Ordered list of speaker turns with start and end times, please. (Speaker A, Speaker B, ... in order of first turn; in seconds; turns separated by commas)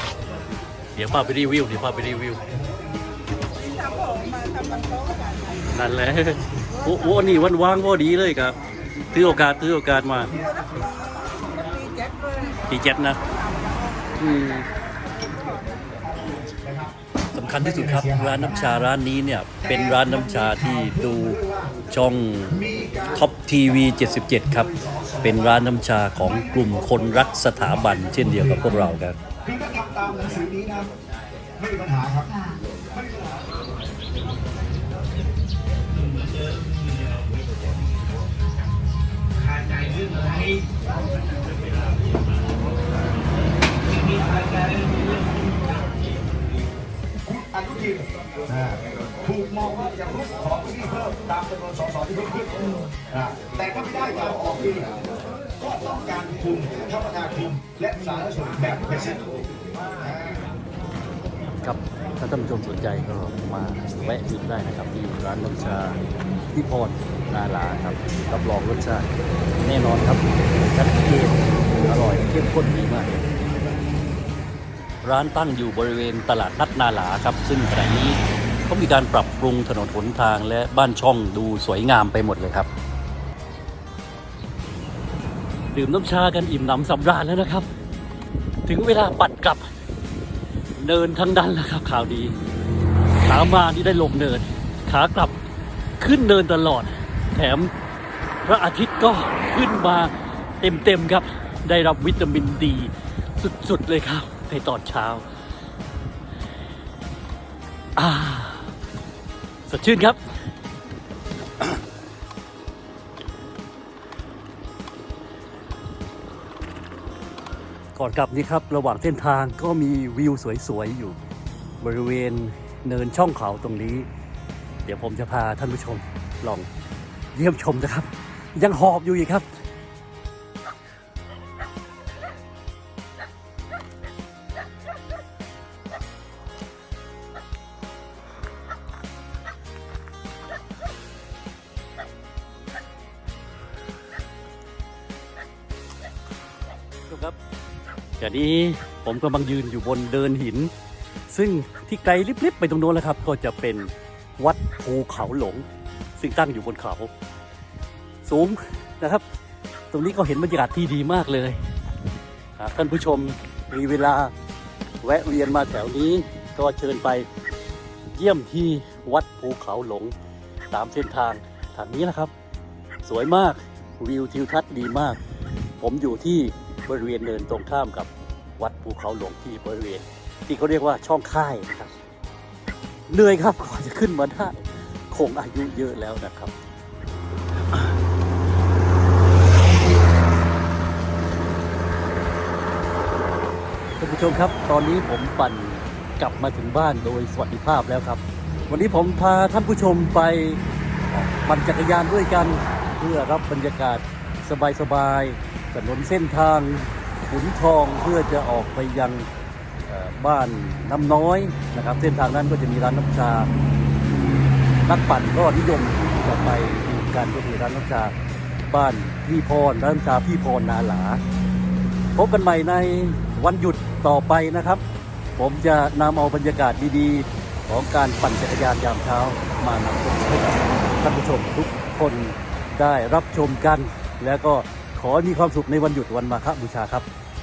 Speaker A: 0.9-2.4, Speaker B: 3.6-5.5, Speaker A: 5.7-8.6, Speaker A: 9.1-10.4, Speaker B: 10.5-12.6, Speaker A: 12.7-13.3, Speaker B: 13.5-13.9, Speaker A: 14.1-14.7, Speaker A: 17.3-29.2, Speaker C: 29.6-30.7, Speaker C: 31.6-32.4, Speaker C: 47.5-47.9, Speaker C: 49.4-52.6, Speaker C: 53.4-54.7, Speaker C: 55.7-59.2, Speaker A: 61.6-66.0, Speaker A: 66.5-69.1, Speaker A: 69.6-73.2, Speaker A: 75.0-82.7, Speaker A: 85.7-87.7, Speaker A: 88.7-89.7, Speaker A: 90.8-92.3, Speaker A: 93.2-95.3, Speaker A: 96.0-97.7, Speaker A: 98.4-105.2, Speaker A: 108.0-108.7, Speaker A: 109.7-110.3, Speaker A: 117.9-121.2, Speaker A: 121.8-124.1, Speaker A: 124.8-126.7, Speaker A: 127.3-129.5, Speaker A: 147.1-147.4, Speaker A: 148.2-150.7, Speaker A: 151.3-155.6, Speaker A: 156.2-157.1, Speaker A: 158.2-159.2, Speaker A: 159.9-161.6, Speaker A: 162.6-164.3, Speaker A: 165.0-167.3, Speaker A: 168.1-170.1, Speaker A: 170.7-172.3, Speaker A: 173.0-175.2, Speaker A: 175.8-181.9, Speaker A: 183.1-186.5, Speaker A: 194.0-209.3, Speaker A: 209.9-213.5, Speaker A: 214.8-218.1, Speaker A: 218.7-221.2, Speaker A: 222.2-224.8, Speaker A: 225.4-237.1